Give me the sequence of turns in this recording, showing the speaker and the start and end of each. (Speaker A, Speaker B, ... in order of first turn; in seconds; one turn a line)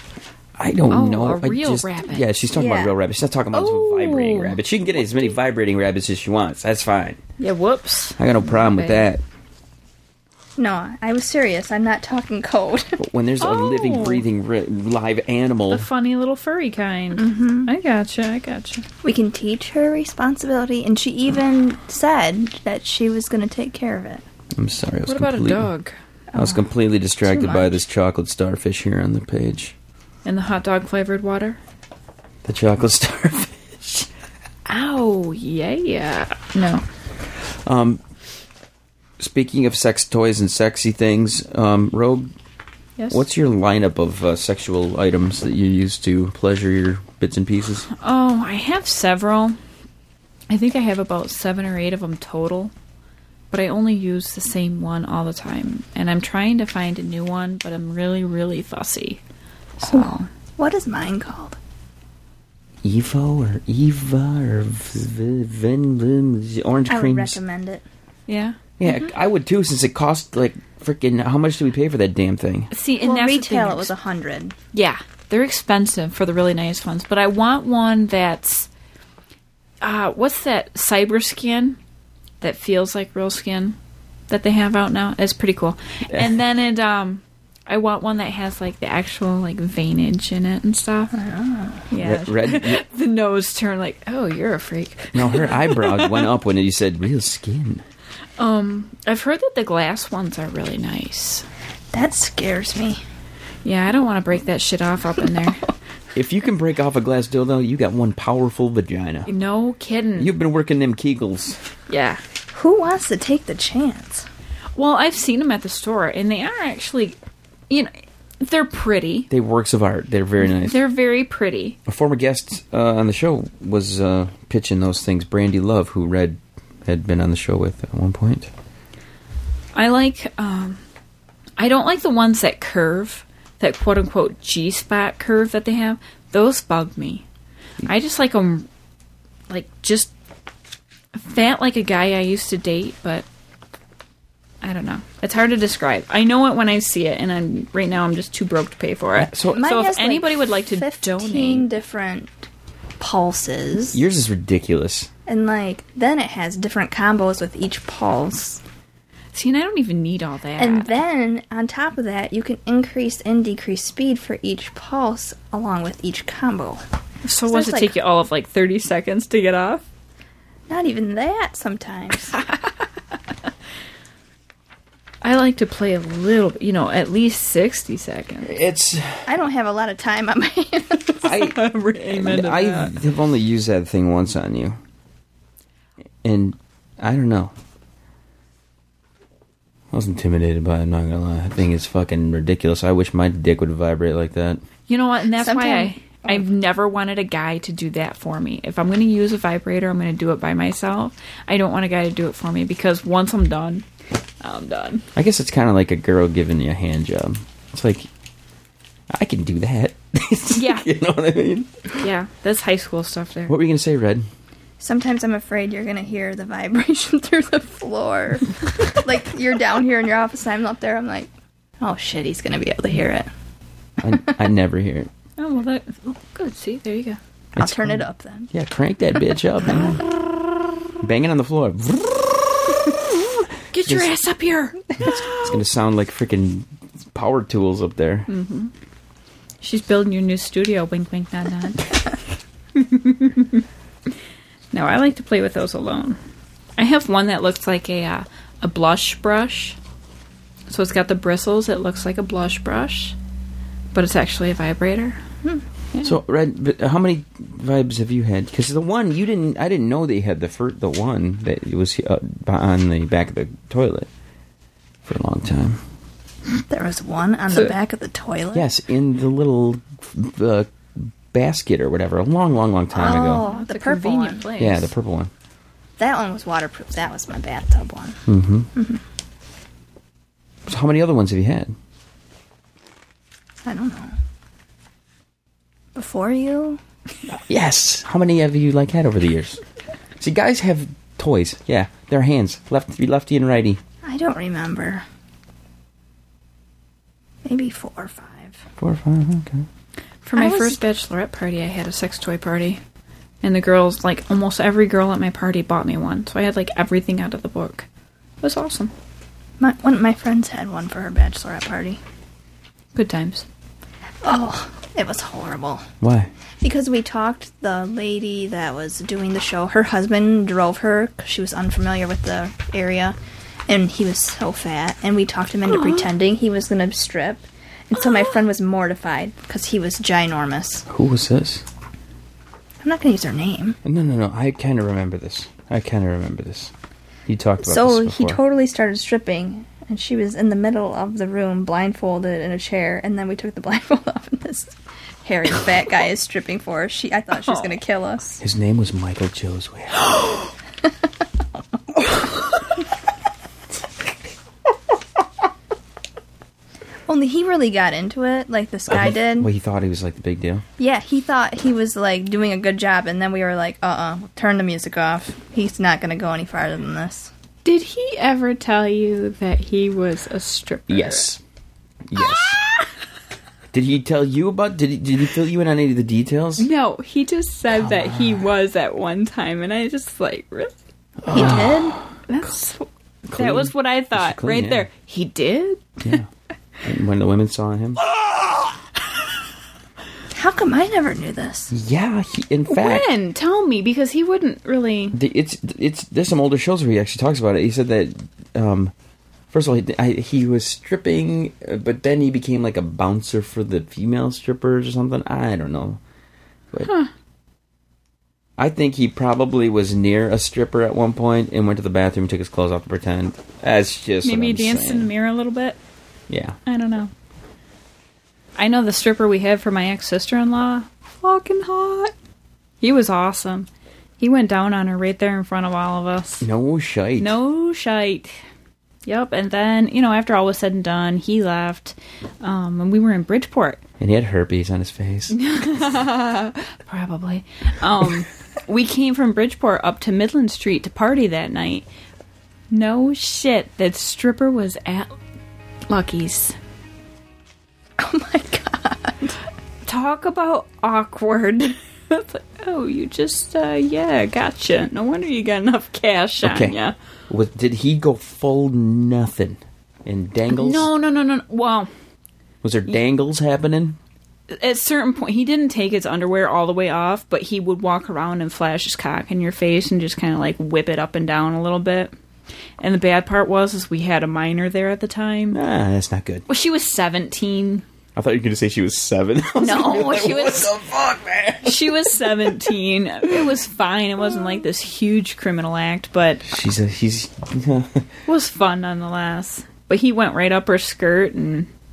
Speaker A: 0.6-7.2
Speaker B: 0.9-2.3
Speaker C: 2.5-2.9
Speaker B: 3.5-4.6
Speaker B: 7.4-9.1
Speaker A: 8.2-9.2
Speaker C: 10.6-13.0
Speaker A: 13.0-15.9
Speaker B: 13.4-14.2
Speaker B: 15.7-18.9
Speaker C: 17.1-17.7
Speaker C: 19.0-24.2
Speaker A: 24.5-25.7
Speaker B: 25.1-25.9
Speaker C: 26.3-26.6
Speaker A: 26.4-29.8
Speaker C: 27.3-27.7
Speaker B: 30.2-31.6
Speaker A: 32.5-34.1
Speaker B: 34.7-36.9
Speaker A: 37.6-38.0
Speaker A: 39.2-42.3
Speaker B: 43.0-43.2
Speaker A: 43.1-47.9
Speaker B: 47.9-49.6
Speaker B: 50.5-52.7
Speaker B: 53.5-59.2
Speaker B: 59.8-60.3
Speaker C: 59.9-61.6
Speaker A: 62.8-67.4
Speaker C: 66.9-67.8
Speaker B: 68.3-68.6
Speaker A: 68.8-72.7
Speaker B: 72.7-73.9
Speaker C: 73.0-74.5
Speaker B: 74.7-78.7
Speaker B: 79.8-81.8
Speaker B: 82.4-83.8
Speaker B: 84.3-91.1
Speaker A: 86.1-86.4
Speaker C: 91.1-91.8
Speaker B: 91.9-96.3
Speaker A: 92.0-92.8
Speaker A: 95.1-97.8
Speaker B: 98.4-101.5
Speaker C: 101.9-103.0
Speaker B: 103.6-105.7
Speaker A: 106.1-109.3
Speaker B: 109.3-110.3
Speaker A: 110.2-111.6
Speaker B: 111.9-112.2
Speaker C: 112.5-114.3
Speaker B: 114.8-117.2
Speaker B: 117.7-119.3
Speaker A: 119.3-120.8
Speaker B: 120.4-121.8
Speaker A: 121.9-128.5
Speaker B: 129.8-130.8
Speaker B: 131.6-137.2
Speaker B: 137.8-138.7
Speaker B: 139.5-140.1
Speaker B: 141.2-143.3
Speaker B: 144.6-151.7
Speaker A: 149.2-149.7
Speaker C: 149.5-152.3
Speaker C: 153.0-154.0
Speaker A: 153.9-155.1
Speaker C: 155.3-158.6
Speaker B: 159.3-161.0
Speaker C: 160.6-166.8
Speaker B: 167.2-169.8
Speaker C: 167.5-167.9
Speaker C: 170.7-172.4
Speaker B: 172.4-172.6
Speaker B: 175.2-178.5
Speaker A: 178.4-179.3
Speaker C: 179.2-181.3
Speaker A: 181.2-184.8
Speaker B: 181.2-182.9
Speaker A: 186.2-187.5
Speaker A: 189.9-194.6
Speaker B: 194.9-203.9
Speaker C: 195.4-196.4
Speaker B: 204.4-205.1
Speaker A: 205.2-208.1
Speaker A: 209.1-212.0
Speaker B: 210.5-210.9
Speaker B: 212.0-213.6
Speaker A: 213.5-214.2
Speaker C: 214.8-221.3
Speaker C: 221.8-223.3
Speaker A: 224.0-225.1
Speaker B: 225.4-227.2
Speaker A: 227.6-230.1
Speaker C: 227.6-228.5
Speaker A: 231.0-232.8
Speaker B: 233.7-235.6
Speaker A: 233.8-234.1
Speaker A: 235.0-238.3
Speaker B: 238.3-238.7
Speaker B: 239.6-241.9
Speaker B: 242.8-243.6
Speaker B: 244.7-246.2
Speaker B: 246.8-249.8
Speaker B: 250.7-253.2
Speaker B: 253.9-255.2
Speaker B: 255.9-256.2
Speaker A: 256.0-264.1
Speaker A: 265.0-265.8
Speaker C: 266.7-268.7
Speaker A: 268.5-273.4
Speaker C: 272.9-274.5
Speaker B: 273.3-274.9
Speaker A: 274.6-275.3
Speaker C: 276.0-278.2
Speaker A: 278.3-278.7
Speaker C: 278.8-279.0
Speaker A: 280.7-281.7
Speaker C: 283.6-284.1
Speaker C: 285.9-286.8
Speaker A: 287.3-289.6
Speaker A: 290.2-293.8
Speaker C: 294.0-295.1
Speaker C: 297.5-298.6
Speaker A: 298.8-299.7
Speaker B: 300.2-302.8
Speaker C: 300.4-300.8
Speaker B: 303.4-307.9
Speaker B: 308.4-308.9
Speaker C: 309.6-312.0
Speaker B: 312.9-313.4
Speaker C: 314.2-315.9
Speaker A: 316.0-316.3
Speaker C: 316.6-323.2
Speaker C: 323.7-330.9
Speaker B: 325.7-326.0
Speaker A: 330.9-331.6
Speaker C: 332.8-333.8
Speaker A: 333.8-336.7
Speaker A: 337.3-338.4
Speaker C: 337.6-344.7
Speaker C: 345.2-348.4
Speaker A: 348.4-350.4
Speaker C: 357.1-359.5
Speaker A: 358.9-360.6
Speaker C: 360.8-367.3
Speaker B: 367.6-371.3
Speaker A: 370.9-371.4
Speaker A: 372.1-372.6
Speaker B: 372.2-372.6
Speaker A: 373.7-376.7
Speaker B: 376.6-380.7
Speaker A: 377.7-378.5
Speaker A: 381.2-382.0
Speaker B: 381.3-381.6
Speaker C: 381.3-382.0
Speaker B: 382.3-386.1
Speaker A: 383.3-384.9
Speaker A: 386.0-386.3
Speaker A: 386.8-388.0
Speaker C: 390.3-391.7
Speaker A: 391.7-393.1
Speaker B: 392.7-395.2
Speaker A: 395.1-398.9
Speaker A: 399.5-406.0
Speaker B: 406.8-407.1
Speaker A: 408.6-415.1
Speaker B: 414.2-415.8
Speaker A: 416.3-416.6
Speaker B: 416.7-417.1
Speaker B: 418.6-422.1
Speaker B: 422.8-423.7
Speaker B: 424.2-426.5
Speaker A: 426.4-427.4
Speaker B: 427.2-428.3
Speaker B: 429.1-433.8
Speaker A: 434.0-435.4
Speaker B: 435.3-441.9
Speaker B: 442.7-445.1
Speaker B: 445.9-446.6
Speaker C: 448.0-449.4
Speaker B: 449.9-456.9
Speaker A: 456.4-456.8
Speaker A: 457.3-460.9
Speaker B: 460.5-461.9
Speaker A: 462.6-464.0
Speaker B: 464.5-472.1
Speaker B: 472.8-475.6
Speaker A: 475.5-476.4
Speaker B: 476.5-477.8
Speaker A: 478.1-482.7
Speaker B: 479.6-480.7
Speaker B: 481.6-486.4
Speaker A: 486.4-488.1
Speaker B: 488.3-491.7